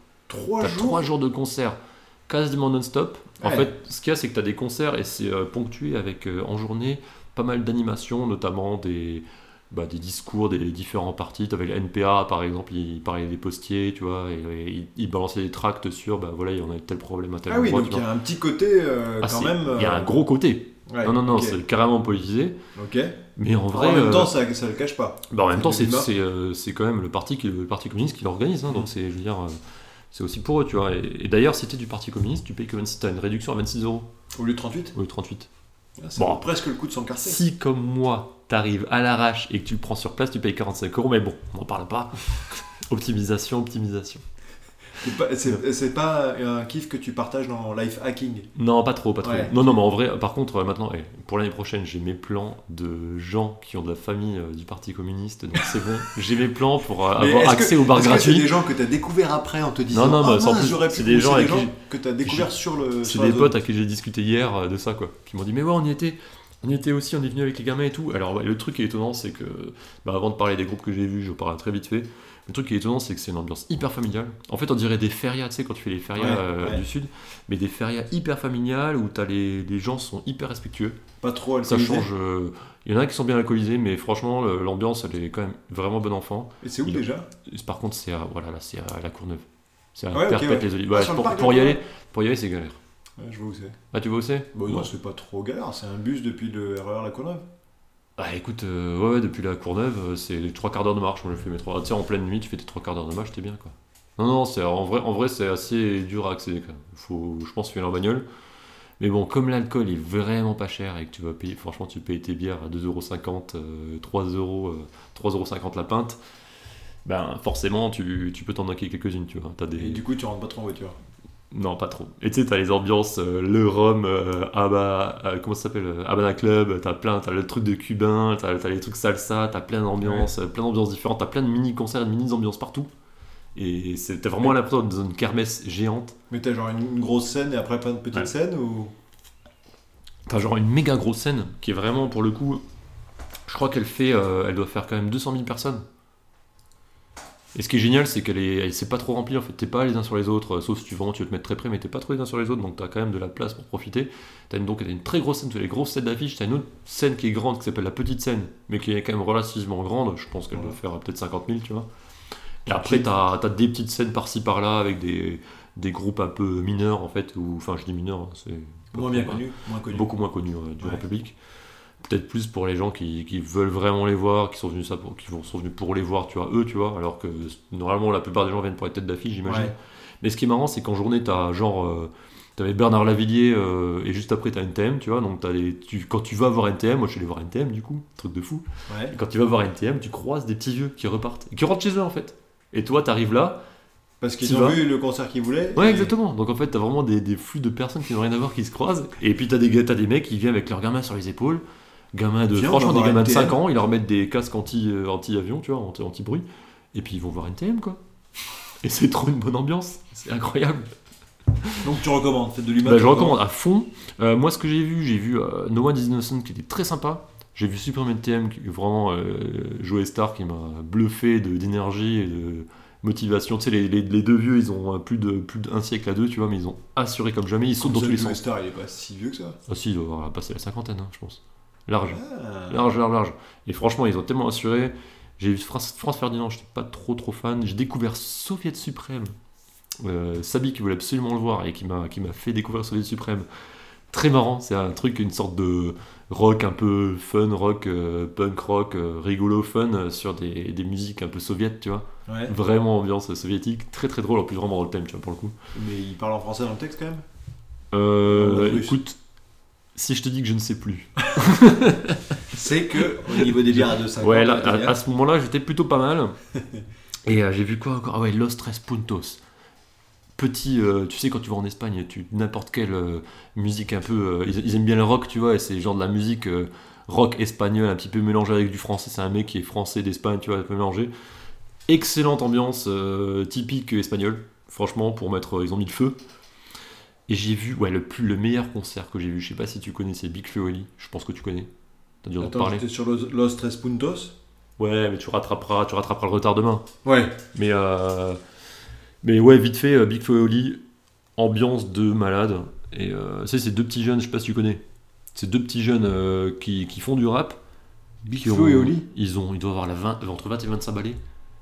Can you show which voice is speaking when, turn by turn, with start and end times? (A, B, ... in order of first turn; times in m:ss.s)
0:00.3-0:01.1 A
0:00.6-0:18.1 B
0:03.4-0:03.7 A
0:17.5-0:20.2 A
0:19.2-0:22.6 B
0:20.9-0:21.6 A
0:22.7-0:26.1 A
0:23.4-0:24.3 B
0:25.3-0:29.6 B
0:30.1-0:34.1 B
0:34.3-0:34.9 A
0:34.9-0:35.5 B
0:36.0-0:37.4 A
0:36.2-0:36.4 B
0:37.2-0:44.2 B
0:45.0-0:48.5 A
0:48.6-0:58.6 B
0:49.2-0:49.5 A
0:57.2-1:03.6 A
0:59.9-1:21.0 B
1:16.2-1:16.8 A
1:21.2-1:22.1 A
1:21.6-1:29.4 B
1:26.6-1:27.3 A
1:30.0-1:32.8 B
1:30.1-1:31.8 A
1:33.2-1:33.8 A
1:33.9-1:34.9 B
1:34.5-1:37.4 A
1:38.2-1:48.2 B
1:49.0-1:56.2 B
1:57.0-2:00.0 B
1:59.8-2:01.0 A
2:01.5-2:12.9 B
2:10.0-2:10.3 A
2:13.6-2:16.2 B
2:16.3-2:18.9 A
2:20.3-2:22.6 B
2:23.5-2:25.8 B
2:27.5-2:41.9 B
2:40.5-2:40.8 A
2:42.6-2:51.4 B
2:42.6-2:43.1 A
2:48.9-2:50.1 A
2:52.0-3:13.6 B
2:59.4-2:59.7 A
3:08.9-3:09.2 A
3:14.2-3:16.1 A
3:14.4-3:14.8 B
3:15.7-3:28.0 B
3:22.5-3:23.6 A
3:28.8-3:30.9 B
3:31.6-3:31.9 B
3:31.8-3:33.4 A
3:32.8-3:48.4 B
3:47.8-3:49.6 A
3:49.7-3:59.3 B
3:52.1-3:52.9 A
4:00.0-4:03.5 B
4:04.1-4:15.6 B
4:12.3-4:12.5 A
4:15.7-4:17.2 A
4:17.9-4:19.2 B
4:18.2-4:19.0 A
4:19.9-4:22.5 B
4:22.5-4:25.0 A
4:23.1-4:26.4 B
4:26.5-4:26.8 A
4:27.2-4:29.4 B
4:30.4-4:41.1 B
4:41.9-4:46.2 B
4:47.3-4:51.7 B
4:52.2-4:52.8 B
4:52.4-4:54.4 A
4:54.8-4:56.9 B
4:57.0-4:57.4 A
4:57.5-4:58.4 B
4:59.2-5:00.8 B
5:01.4-5:04.8 B
5:05.3-5:07.6 B
5:08.2-5:09.1 A
5:08.3-5:11.2 B